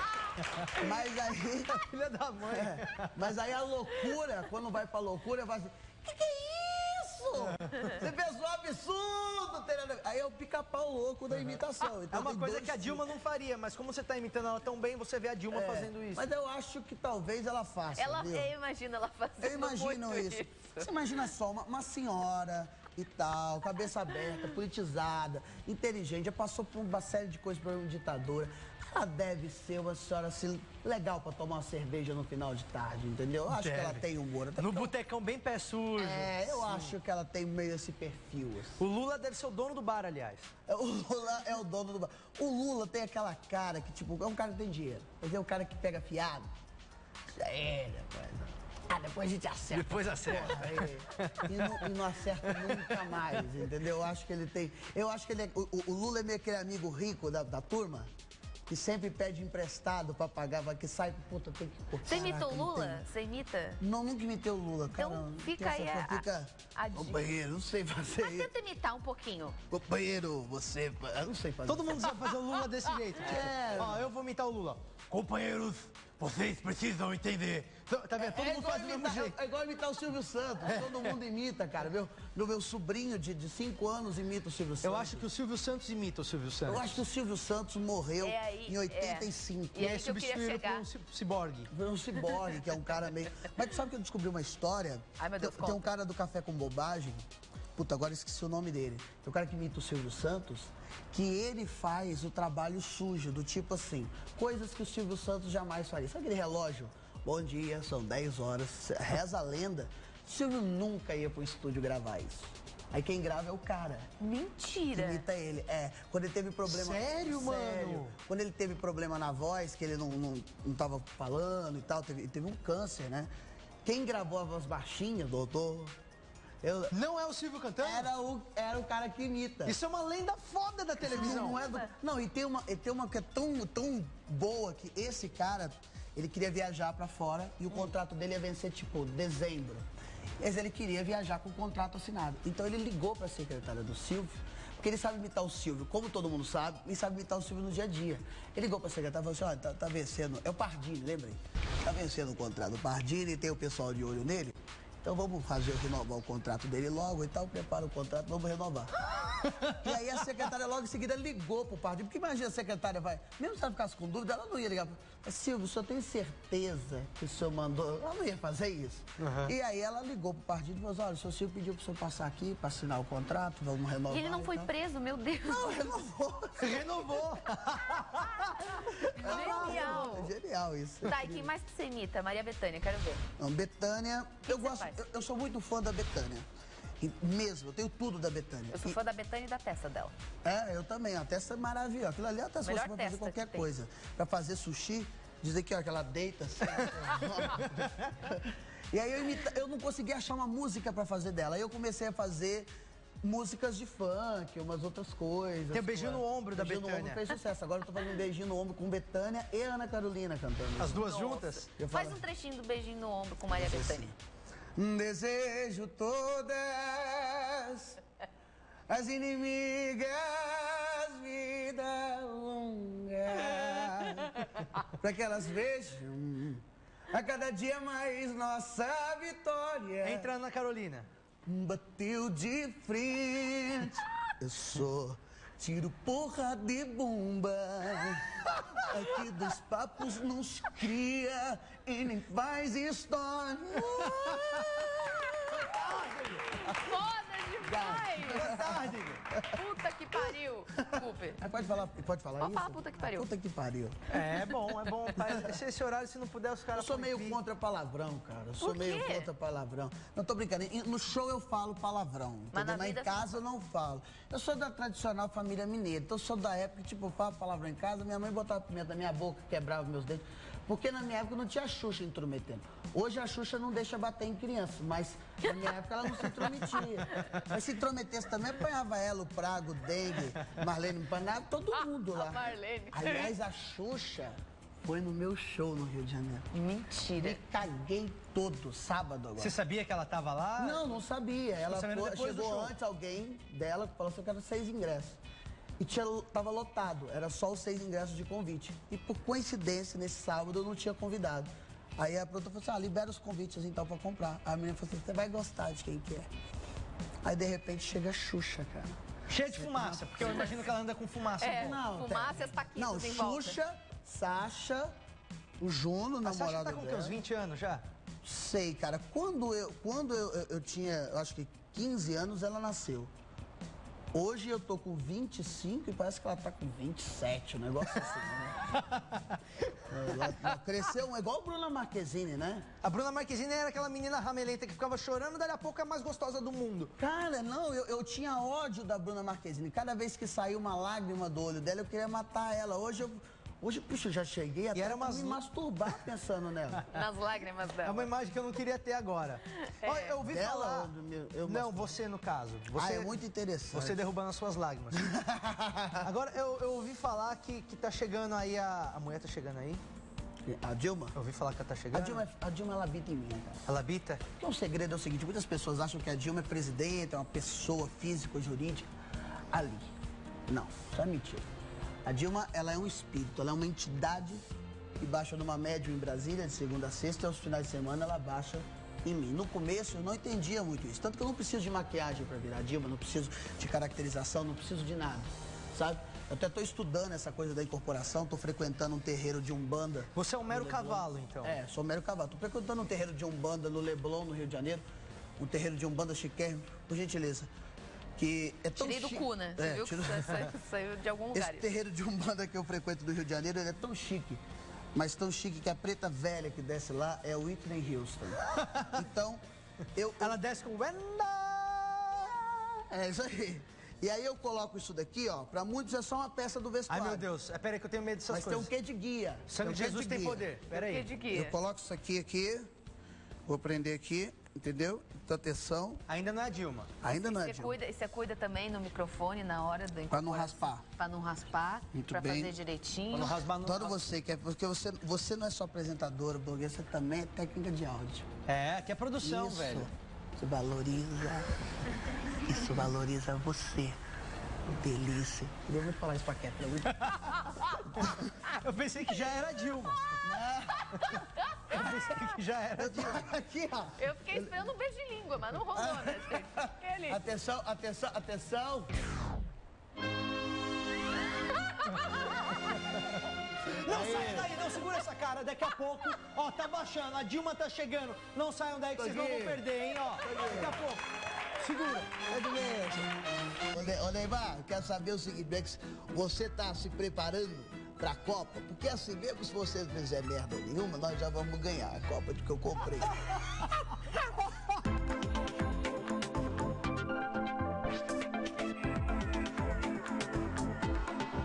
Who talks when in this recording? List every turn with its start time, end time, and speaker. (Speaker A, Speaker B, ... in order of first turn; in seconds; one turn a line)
Speaker A: 0.3-1.0
Speaker B: 0.7-1.8
Speaker A: 1.7-3.2
Speaker B: 2.5-13.0
Speaker A: 7.4-8.0
Speaker A: 12.1-16.3
Speaker B: 15.5-18.5
Speaker C: 18.0-20.9
Speaker B: 19.4-34.9
Speaker A: 33.5-34.0
Speaker A: 34.6-36.9
Speaker B: 36.0-38.8
Speaker A: 38.8-40.5
Speaker B: 40.7-46.5
Speaker B: 47.3-58.1
Speaker A: 49.7-53.4
Speaker B: 58.7-63.0
Speaker C: 62.0-63.8
Speaker B: 63.8-68.5
Speaker C: 65.0-67.2
Speaker C: 68.2-69.6
Speaker B: 69.7-72.3
Speaker A: 71.7-79.4
Speaker B: 73.2-74.1
Speaker B: 78.2-85.3
Speaker A: 80.7-81.2
Speaker A: 84.8-87.0
Speaker B: 86.7-90.0
Speaker C: 88.2-90.9
Speaker A: 89.8-91.7
Speaker B: 91.7-114.1
Speaker C: 95.2-95.9
Speaker C: 114.2-115.3
Speaker B: 114.9-123.3
Speaker A: 116.7-118.2
Speaker B: 123.8-126.0
Speaker B: 126.6-127.0
Speaker A: 126.9-128.1
Speaker B: 127.8-129.8
Speaker A: 129.7-131.6
Speaker B: 131.0-139.8
Speaker C: 131.2-131.9
Speaker B: 140.4-158.9
Speaker A: 159.4-159.8
Speaker B: 159.7-174.7
Speaker A: 169.2-169.5
Speaker C: 174.1-175.8
Speaker B: 175.4-176.8
Speaker A: 176.6-180.0
Speaker C: 178.8-180.3
Speaker B: 178.8-181.5
Speaker C: 181.0-183.2
Speaker B: 183.4-186.5
Speaker C: 184.4-185.0
Speaker B: 187.0-189.0
Speaker C: 188.7-190.1
Speaker B: 190.4-202.7
Speaker C: 192.6-193.7
Speaker B: 203.2-211.0
Speaker A: 205.7-207.2
Speaker A: 210.8-211.7
Speaker C: 211.0-214.1
Speaker B: 211.8-212.2
Speaker B: 213.5-214.1
Speaker B: 214.8-218.0
Speaker B: 218.9-230.3
Speaker A: 230.0-231.1
Speaker B: 231.5-245.7
Speaker A: 243.8-246.6
Speaker C: 246.5-248.8
Speaker B: 246.7-246.9
Speaker B: 247.6-249.6
Speaker A: 248.1-249.2
Speaker C: 249.5-251.4
Speaker B: 250.8-254.1
Speaker C: 252.4-253.3
Speaker A: 254.1-257.4
Speaker B: 255.2-255.5
Speaker B: 256.7-286.5
Speaker C: 258.6-259.3
Speaker C: 262.5-263.4
Speaker C: 281.8-283.3
Speaker C: 286.5-287.4
Speaker B: 287.2-289.6
Speaker A: 289.4-290.9
Speaker B: 290.6-295.2
Speaker A: 291.7-292.7
Speaker B: 295.8-306.3
Speaker B: 307.2-310.5
Speaker A: 309.3-311.8
Speaker C: 311.4-313.6
Speaker B: 311.5-314.9
Speaker B: 315.6-317.2
Speaker A: 316.2-317.8
Speaker B: 318.2-323.1
Speaker B: 324.1-328.7
Speaker A: 328.8-329.4
Speaker B: 329.9-332.7
Speaker A: 332.8-336.9
Speaker B: 337.0-346.8
Speaker A: 344.7-345.4
Speaker A: 346.7-347.0
Speaker C: 346.9-348.1
Speaker A: 347.9-350.9
Speaker C: 349.7-350.1
Speaker B: 350.2-352.0
Speaker A: 351.4-353.1
Speaker B: 352.7-354.0
Speaker A: 353.7-355.0
Speaker B: 354.9-356.1
Speaker A: 356.0-359.8
Speaker B: 360.4-361.2
Speaker A: 361.1-362.2
Speaker B: 361.9-363.6
Speaker A: 363.7-364.2
Speaker B: 364.4-368.9
Speaker B: 369.5-369.9
Speaker B: 370.5-371.5
Speaker B: 372.1-374.4
Speaker B: 375.0-394.8
Speaker A: 390.1-391.6
Speaker B: 395.4-397.5
Speaker B: 398.2-400.5
Speaker C: 398.8-401.7
Speaker B: 401.3-404.4
Speaker B: 404.9-409.4
Speaker A: 408.5-409.0
Speaker B: 409.9-410.4
Speaker A: 410.2-412.8
Speaker B: 412.9-417.3
Speaker A: 416.9-418.7
Speaker B: 418.3-420.5
Speaker A: 419.5-421.1
Speaker C: 420.7-421.6
Speaker B: 421.3-422.7
Speaker B: 423.5-426.0
Speaker A: 426.1-426.9
Speaker B: 427.0-427.8
Speaker C: 427.1-433.4
Speaker B: 430.1-430.8
Speaker B: 431.9-432.6
Speaker A: 433.1-434.0
Speaker B: 433.6-438.3
Speaker A: 438.5-439.9
Speaker B: 439.2-441.5
Speaker B: 442.3-444.0
Speaker B: 444.7-447.2
Speaker A: 446.9-450.2
Speaker B: 447.9-448.3
Speaker B: 450.2-451.0
Speaker C: 450.8-451.7
Speaker A: 451.7-453.2
Speaker B: 452.8-454.6
Speaker C: 454.0-457.2
Speaker B: 455.8-458.9
Speaker C: 461.4-462.5
Speaker B: 463.6-464.5
Speaker A: 463.7-471.0
Speaker B: 468.9-469.6
Speaker B: 470.2-470.8
Speaker A: 471.6-472.2
Speaker B: 472.2-473.1
Speaker B: 473.7-483.3